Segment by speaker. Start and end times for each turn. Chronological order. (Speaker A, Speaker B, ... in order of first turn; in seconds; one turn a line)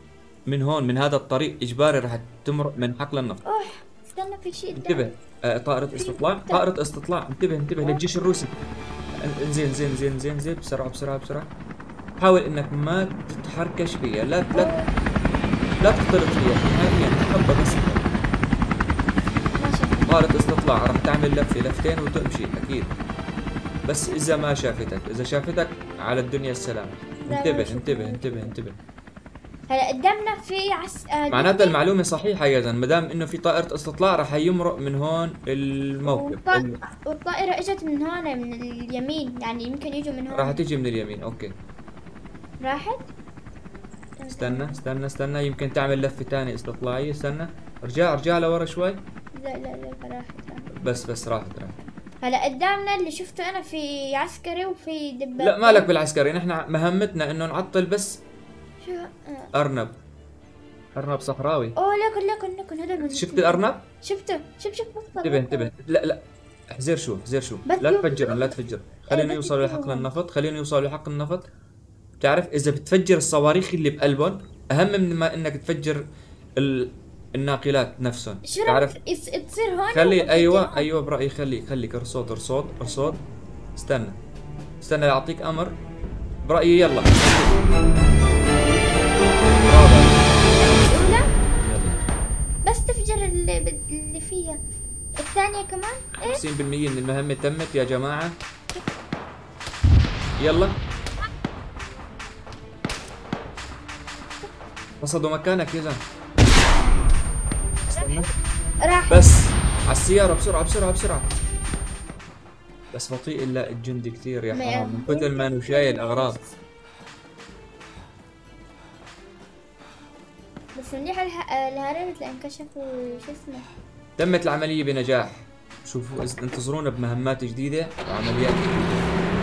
Speaker A: 0.5-3.4
Speaker B: 3.4-5.2
Speaker A: 4.7-8.5
Speaker B: 5.9-6.6
Speaker A: 9.2-11.5
Speaker A: 12.2-14.7
Speaker B: 14.5-14.9
Speaker A: 15.8-18.0
Speaker B: 19.5-20.3
Speaker A: 20.1-22.9
Speaker A: 23.9-28.8
Speaker B: 27.2-28.5
Speaker B: 29.7-31.8
Speaker A: 31.3-36.8
Speaker B: 36.0-40.6
Speaker A: 40.3-41.5
Speaker B: 42.6-43.1
Speaker B: 44.2-44.8
Speaker A: 44.3-49.0
Speaker B: 49.4-50.7
Speaker A: 50.7-51.8
Speaker B: 52.2-55.9
Speaker A: 55.4-58.2
Speaker B: 58.8-59.5
Speaker A: 59.5-60.0
Speaker A: 60.9-61.8
Speaker B: 61.8-65.7
Speaker A: 63.0-63.8
Speaker A: 65.2-66.2
Speaker A: 66.7-71.5
Speaker B: 67.7-70.1
Speaker A: 72.2-76.0
Speaker A: 76.6-79.0
Speaker B: 78.4-80.9
Speaker A: 79.9-83.2
Speaker B: 82.8-83.2
Speaker A: 83.8-84.2
Speaker A: 84.8-85.8
Speaker A: 86.5-87.6
Speaker A: 89.6-90.2
Speaker B: 90.4-91.3
Speaker A: 91.6-92.0
Speaker B: 92.6-94.6
Speaker B: 95.2-96.4
Speaker A: 96.2-98.4
Speaker A: 100.4-100.8
Speaker A: 105.0-106.0
Speaker A: 107.9-108.3
Speaker B: 107.9-108.3
Speaker B: 108.8-109.2
Speaker A: 109.1-111.3
Speaker A: 112.9-116.4
Speaker B: 114.5-116.5
Speaker B: 120.7-123.7
Speaker A: 124.2-129.1